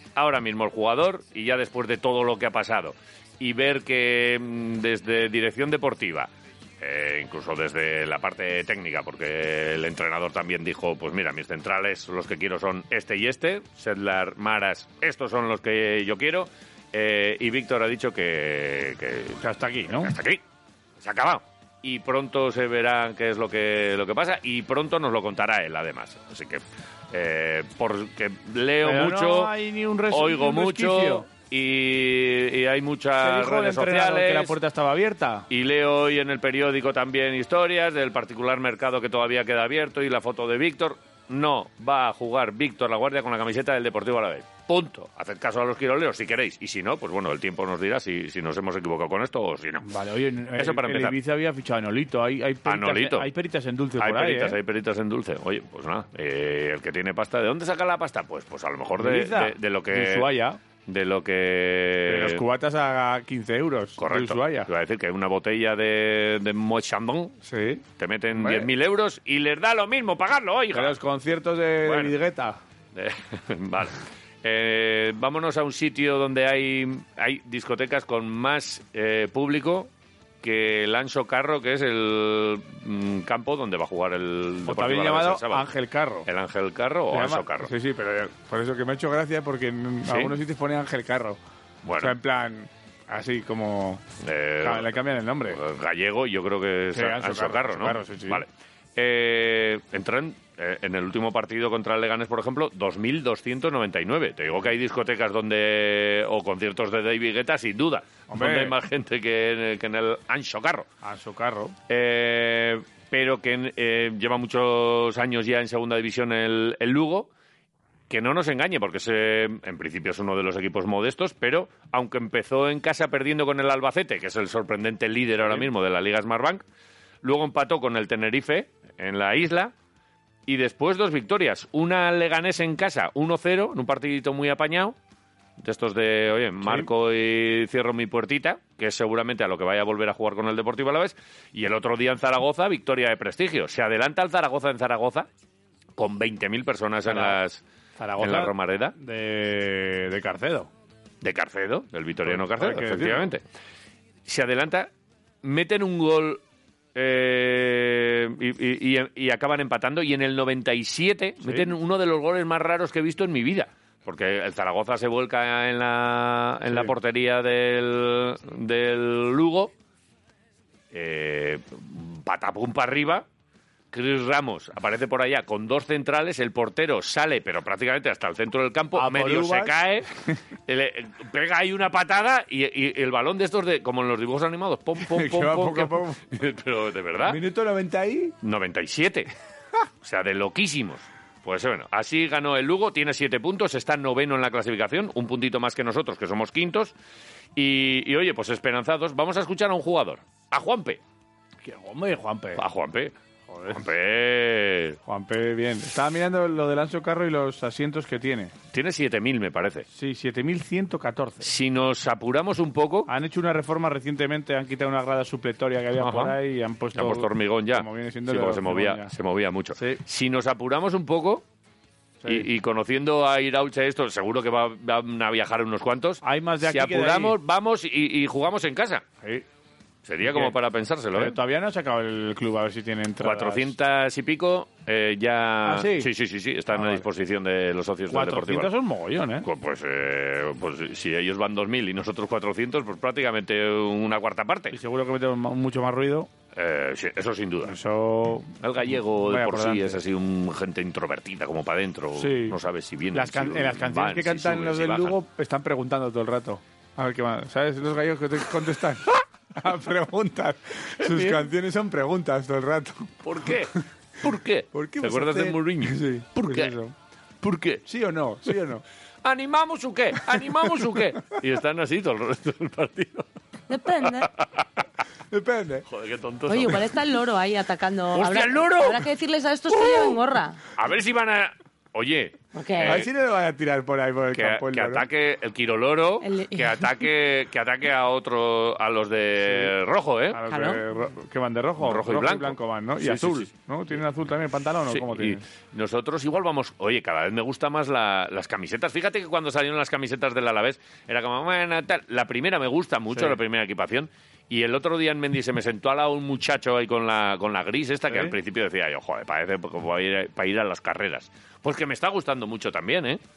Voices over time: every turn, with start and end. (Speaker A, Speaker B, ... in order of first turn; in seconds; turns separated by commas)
Speaker A: 0.2-6.3, Speaker A: 6.8-19.4, Speaker B: 19.4-20.1, Speaker A: 20.0-20.4, Speaker A: 21.0-29.5, Speaker B: 28.8-31.3, Speaker A: 30.1-34.5, Speaker B: 33.2-35.5, Speaker A: 35.5-49.9, Speaker B: 49.8-54.6, Speaker A: 50.6-51.2, Speaker A: 52.7-53.3, Speaker A: 54.0-60.3, Speaker B: 59.0-60.6, Speaker A: 60.9-62.4, Speaker B: 62.1-64.7, Speaker A: 64.0-67.4, Speaker B: 67.5-67.8, Speaker A: 68.0-71.0, Speaker B: 68.3-68.7, Speaker B: 70.7-72.6, Speaker A: 71.8-72.1, Speaker A: 73.0-79.9, Speaker A: 80.4-85.7, Speaker B: 84.7-86.3, Speaker A: 86.3-87.7, Speaker B: 87.1-91.4, Speaker A: 90.1-90.4, Speaker A: 91.8-92.2, Speaker B: 92.0-94.0, Speaker A: 94.2-95.0, Speaker B: 94.6-95.6, Speaker A: 95.5-110.9, Speaker B: 96.9-98.5, Speaker B: 108.3-108.7, Speaker B: 111.0-111.8, Speaker A: 111.9-117.3, Speaker A: 118.1-126.6, Speaker B: 125.4-125.7, Speaker A: 127.2-129.7, Speaker A: 130.5-134.9, Speaker A: 135.6-145.3, Speaker B: 136.6-136.9, Speaker A: 146.0-147.6, Speaker B: 147.1-147.4, Speaker B: 148.0-150.7, Speaker A: 148.2-148.9, Speaker A: 151.2-153.4, Speaker B: 152.2-153.3, Speaker A: 154.3-154.9, Speaker A: 155.4-156.4, Speaker A: 156.9-169.7, Speaker B: 161.4-161.7, Speaker B: 166.7-166.9, Speaker A: 170.9-173.3, Speaker A: 173.9-180.1, Speaker B: 178.9-179.7, Speaker A: 180.7-187.4, Speaker B: 185.0-186.3, Speaker B: 187.2-188.3, Speaker A: 188.4-189.3, Speaker A: 190.0-196.9, Speaker A: 197.6-201.0, Speaker B: 201.6-202.6, Speaker A: 202.6-203.2, Speaker B: 203.5-203.9, Speaker A: 203.7-205.0, Speaker B: 205.1-208.5, Speaker A: 208.7-209.9, Speaker B: 209.9-211.5, Speaker A: 211.4-213.1, Speaker B: 213.1-219.1, Speaker A: 216.0-216.4, Speaker A: 216.9-221.4, Speaker B: 219.8-220.0, Speaker B: 222.2-222.5, Speaker A: 222.3-229.0, Speaker B: 226.2-227.4, Speaker A: 230.1-231.4, Speaker B: 230.2-230.6, Speaker B: 231.1-233.7, Speaker A: 233.2-238.7, Speaker B: 235.6-236.1, Speaker B: 236.7-237.1, Speaker B: 238.1-239.5, Speaker A: 239.4-244.8, Speaker B: 244.7-246.3, Speaker A: 246.6-247.8, Speaker B: 247.7-248.5, Speaker A: 248.6-255.2, Speaker B: 249.2-250.0, Speaker B: 252.2-252.6, Speaker B: 253.1-263.5, Speaker A: 261.0-261.5, Speaker A: 263.2-266.8, Speaker B: 264.7-266.9, Speaker A: 267.4-267.8, Speaker B: 267.9-268.8, Speaker A: 269.2-273.3, Speaker B: 270.4-270.7, Speaker C: 273.7-274.3, Speaker A: 274.0-274.7, Speaker B: 275.3-275.9, Speaker A: 275.9-276.9, Speaker C: 276.5-280.6, Speaker A: 278.1-279.1, Speaker A: 279.8-280.1, Speaker A: 280.8-283.1, Speaker C: 282.5-283.0, Speaker B: 282.8-285.1, Speaker A: 284.3-290.4, Speaker C: 286.2-286.9, Speaker B: 289.5-289.7, Speaker B: 290.3-295.4, Speaker C: 290.5-290.8, Speaker A: 291.8-293.5, Speaker A: 294.9-313.2, Speaker B: 303.1-303.4, Speaker B: 308.1-308.3